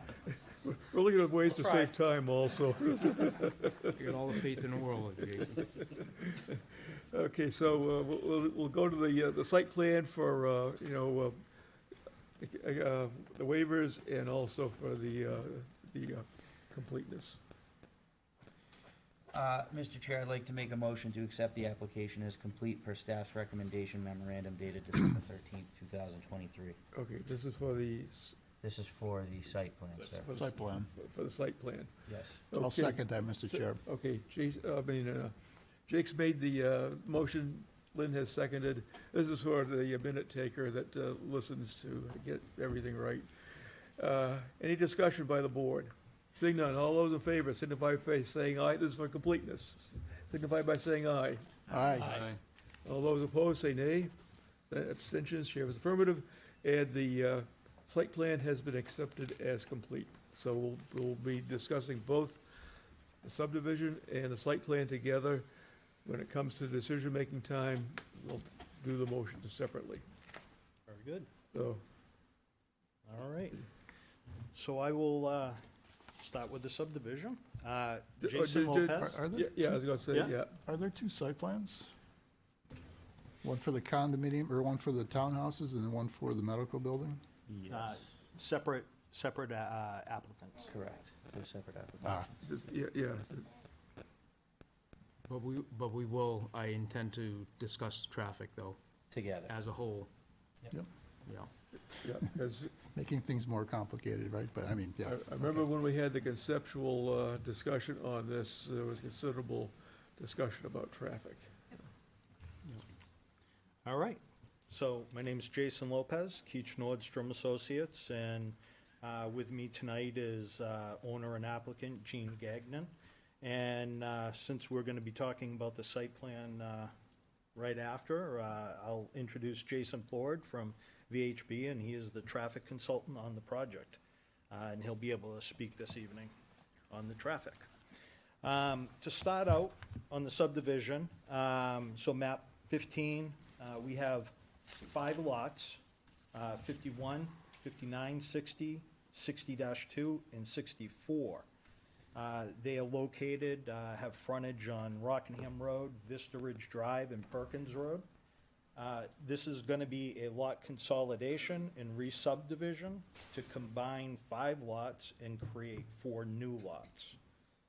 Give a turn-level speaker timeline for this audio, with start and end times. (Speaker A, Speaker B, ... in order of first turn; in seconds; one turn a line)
Speaker A: 0.6-4.0
Speaker B: 1.5-1.9
Speaker C: 3.9-5.8
Speaker A: 5.8-11.4
Speaker A: 12.4-17.4
Speaker D: 19.3-26.8
Speaker A: 26.9-28.4
Speaker D: 28.6-30.3
Speaker A: 30.2-35.3
Speaker E: 30.3-30.9
Speaker D: 32.0-32.4
Speaker E: 32.5-33.8
Speaker A: 35.9-52.2
Speaker E: 51.7-52.2
Speaker A: 52.8-54.1
Speaker A: 54.7-62.6
Speaker A: 63.2-65.5
Speaker A: 66.0-70.0
Speaker B: 70.9-71.3
Speaker A: 71.5-71.8
Speaker B: 73.0-73.6
Speaker B: 74.5-75.6
Speaker B: 76.2-79.2
Speaker A: 78.2-80.6
Speaker E: 78.9-79.9
Speaker E: 80.6-81.9
Speaker E: 83.4-87.2
Speaker D: 87.5-88.1
Speaker B: 87.7-90.7
Speaker D: 90.6-92.2
Speaker E: 92.0-92.3
Speaker A: 92.4-93.5
Speaker C: 95.3-98.8
Speaker D: 99.1-99.5
Speaker C: 99.5-100.1
Speaker C: 101.2-101.5
Speaker A: 102.0-102.7
Speaker E: 102.9-105.7
Speaker A: 105.0-111.5
Speaker B: 113.8-126.9
Speaker B: 127.5-134.0
Speaker B: 134.5-136.3
Speaker B: 136.9-137.7
Speaker B: 138.4-145.8
Speaker B: 146.3-151.4
Speaker B: 152.1-158.1
Speaker B: 158.8-167.2